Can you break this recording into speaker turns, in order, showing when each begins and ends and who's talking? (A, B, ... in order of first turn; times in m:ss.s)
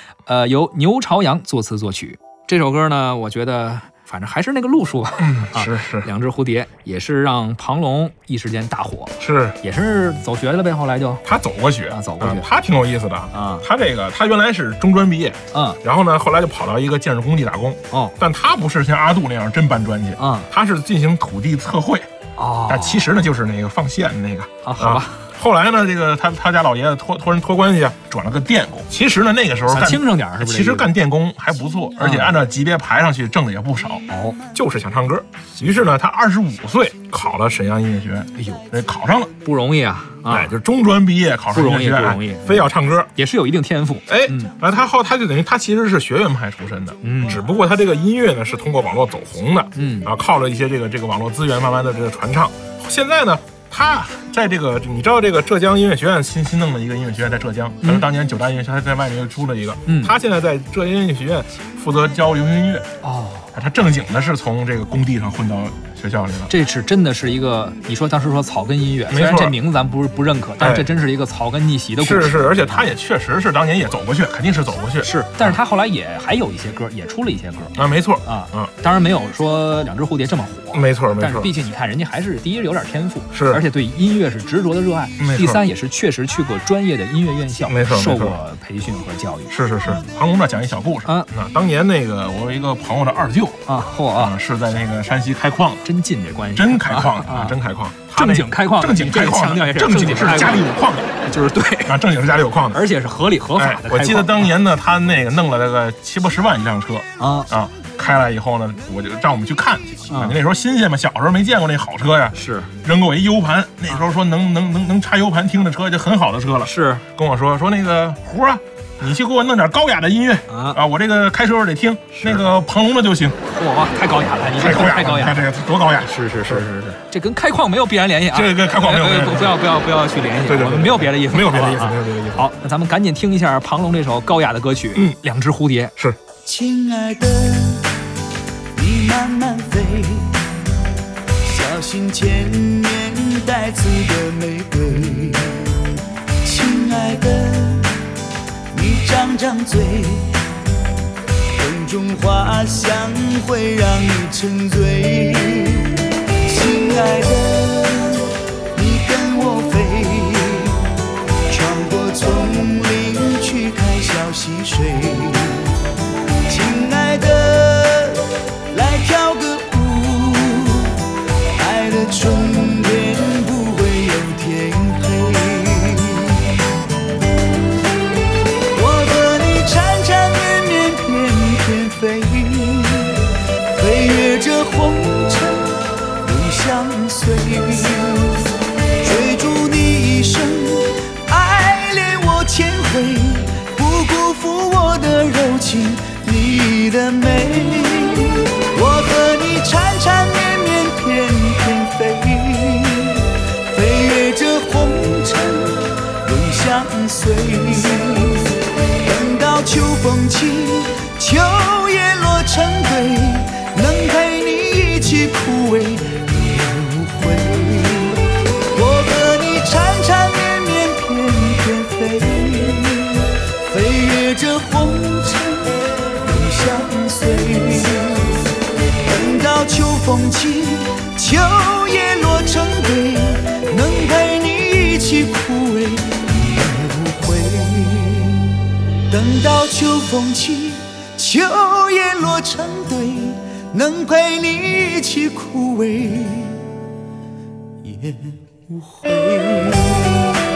0:00.3-0:11.2 A
0:05.2-0:06.1 B
0:09.2-0:09.6 B
0:11.2-0:22.1 B
0:11.9-0:12.5 A
0:13.3-0:13.7 A
0:15.5-0:15.8 A
0:17.9-0:18.2 A
0:20.2-0:20.5 A
0:22.4-0:23.1 A
0:22.7-0:39.3 B
0:24.6-0:25.3 A
0:29.7-0:30.9 A
0:32.0-0:32.4 A
0:34.1-0:34.4 A
0:38.4-0:38.6 A
0:39.4-0:40.6 A
0:40.3-0:43.1 B
0:41.5-0:44.5 A
0:44.1-1:02.8 B
0:47.0-0:47.4 A
0:49.8-0:50.1 A
0:59.9-1:00.1 A
1:03.0-1:03.5 A
1:03.5-1:06.5 B
1:06.5-1:12.9 A
1:09.1-1:09.6 B
1:10.6-1:10.9 B
1:12.0-1:15.6 B
1:15.0-1:29.6 A
1:17.8-1:18.7 B
1:20.7-1:21.5 B
1:23.3-1:23.6 B
1:25.2-1:25.6 B
1:27.7-1:28.4 B
1:29.5-1:33.6 B
1:33.7-1:34.3 A
1:34.2-1:35.8 B
1:35.8-1:37.6 A
1:36.5-1:41.1 B
1:38.1-1:40.7 A
1:41.3-1:42.0 A
1:41.8-1:42.8 B
1:42.7-1:44.5 A
1:43.6-2:03.4 B
1:47.2-1:47.5 A
1:50.1-1:50.4 A
1:52.3-1:52.7 A
1:56.6-1:57.0 A
2:00.5-2:00.8 A
2:02.2-2:02.4 A
2:03.5-2:05.5 A
2:04.6-2:06.6 B
2:06.0-2:15.9 A
2:08.3-2:09.6 B
2:10.4-2:12.5 B
2:16.4-2:17.9 C
2:18.8-2:20.4 C
2:21.4-2:25.8 C
2:26.4-2:28.0 C
2:28.7-2:30.4 C
2:31.6-2:40.9 C
2:41.5-2:45.8 C
2:46.5-2:56.6 C
2:58.7-3:08.5 C
3:09.0-3:48.5 C
3:49.1-4:06.7 C
4:07.8-4:10.2 C